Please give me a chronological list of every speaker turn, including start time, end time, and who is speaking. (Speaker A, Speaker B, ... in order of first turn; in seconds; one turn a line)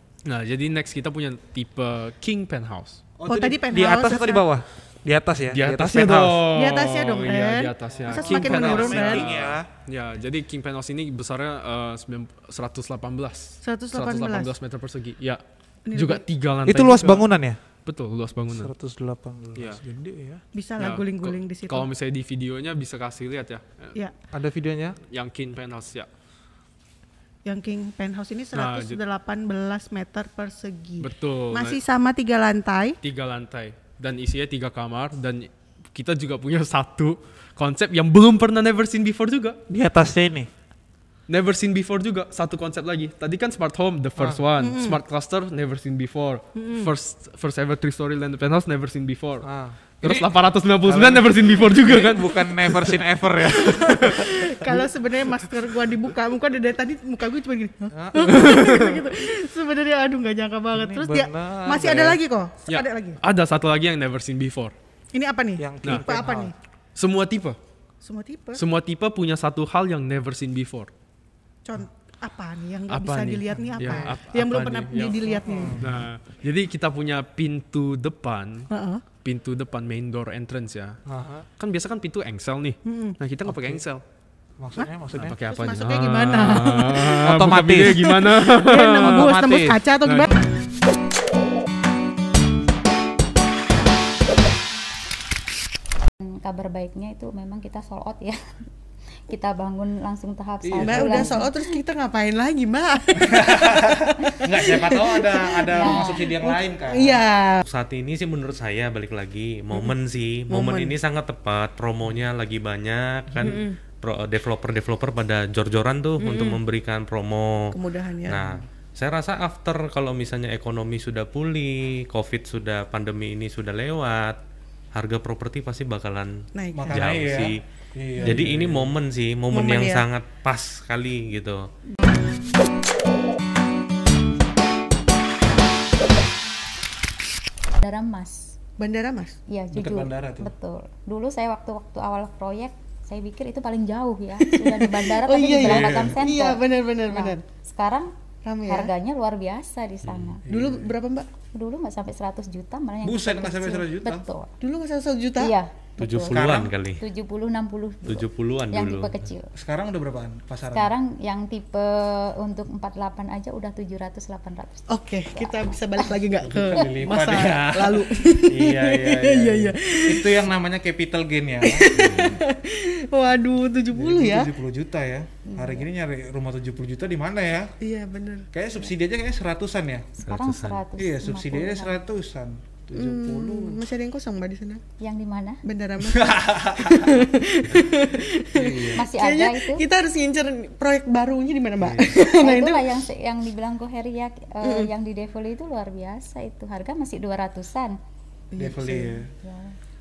Speaker A: 0.2-3.0
Speaker B: 3.2-6.5
Speaker C: 3.3-4.5
Speaker A: 5.5-15.4
Speaker C: 6.5-9.3
Speaker B: 8.0-9.7
Speaker C: 13.6-14.5
Speaker C: 15.9-16.2
Speaker A: 15.9-17.3
Speaker B: 16.7-17.6
Speaker A: 17.9-18.7
Speaker B: 18.5-20.4
Speaker A: 19.6-19.8
Speaker C: 20.6-21.9
Speaker A: 20.8-24.0
Speaker B: 24.3-25.0
Speaker A: 25.1-26.1
Speaker C: 27.4-33.0
Speaker A: 28.5-29.0
Speaker A: 31.0-31.8
Speaker A: 33.0-39.6
Speaker B: 39.7-40.5
Speaker A: 41.3-49.5
Speaker B: 44.2-44.4
Speaker C: 44.6-45.0
Speaker C: 46.6-46.9
Speaker B: 49.4-54.9
Speaker A: 50.0-52.9
Speaker C: 53.5-63.2
Speaker B: 57.9-58.5
Speaker A: 58.2-59.0
Speaker B: 60.7-62.2
Speaker A: 62.7-64.7
Speaker C: 65.1-66.5
Speaker B: 65.6-66.5
Speaker A: 67.0-67.6
Speaker C: 68.0-68.6
Speaker A: 68.5-70.9
Speaker C: 71.7-75.8
Speaker A: 72.9-78.7
Speaker B: 73.6-74.1
Speaker B: 75.5-76.1
Speaker C: 78.7-79.0
Speaker A: 79.2-81.0
Speaker B: 81.1-81.5
Speaker A: 81.6-84.0
Speaker C: 82.8-83.2
Speaker B: 83.5-83.8
Speaker B: 84.6-85.4
Speaker A: 85.2-89.4
Speaker C: 85.5-87.0
Speaker B: 87.0-88.2
Speaker C: 88.3-90.3
Speaker B: 89.0-89.8
Speaker A: 90.0-90.3
Speaker D: 96.2-98.4
Speaker D: 99.3-101.8
Speaker B: 100.6-101.4
Speaker C: 100.8-107.6
Speaker B: 103.2-107.2
Speaker D: 105.7-106.3
Speaker E: 107.6-117.8
Speaker C: 110.5-111.0
Speaker C: 113.4-113.8
Speaker C: 116.2-116.6
Speaker C: 117.7-118.5
Speaker E: 118.3-124.4
Speaker E: 124.9-127.6
Speaker C: 126.5-127.1
Speaker B: 126.7-129.0
Speaker E: 128.2-131.7
Speaker C: 129.5-130.1
Speaker D: 137.8-138.5
Speaker C: 138.8-139.4
Speaker D: 139.5-148.1
Speaker B: 139.7-140.5
Speaker C: 144.4-147.4
Speaker B: 145.6-146.2
Speaker C: 148.4-148.9
Speaker D: 148.7-150.4
Speaker E: 150.1-150.4
Speaker B: 150.5-150.9
Speaker C: 150.5-151.3
Speaker D: 151.5-154.5
Speaker B: 153.0-154.2
Speaker C: 154.6-155.5
Speaker D: 155.4-156.5
Speaker E: 156.0-157.0
Speaker B: 156.3-156.7
Speaker D: 157.0-159.5
Speaker E: 158.1-159.2
Speaker B: 159.6-160.9
Speaker D: 160.7-166.1
Speaker C: 164.9-170.5
Speaker B: 166.4-172.2
Speaker C: 171.6-174.5
Speaker E: 171.9-172.4
Speaker B: 173.9-177.7
Speaker D: 175.5-175.9
Speaker C: 177.8-178.5
Speaker B: 178.5-180.1
Speaker D: 180.2-182.0
Speaker E: 180.3-180.8
Speaker B: 181.0-183.8
Speaker C: 182.9-184.8
Speaker D: 185.0-185.6
Speaker C: 185.7-192.9
Speaker B: 186.1-187.2
Speaker B: 188.6-189.1
Speaker D: 188.9-189.8
Speaker B: 191.8-192.2
Speaker D: 192.2-198.0
Speaker C: 194.6-194.9
Speaker C: 198.5-199.2
Speaker B: 198.6-199.3
Speaker D: 199.4-199.8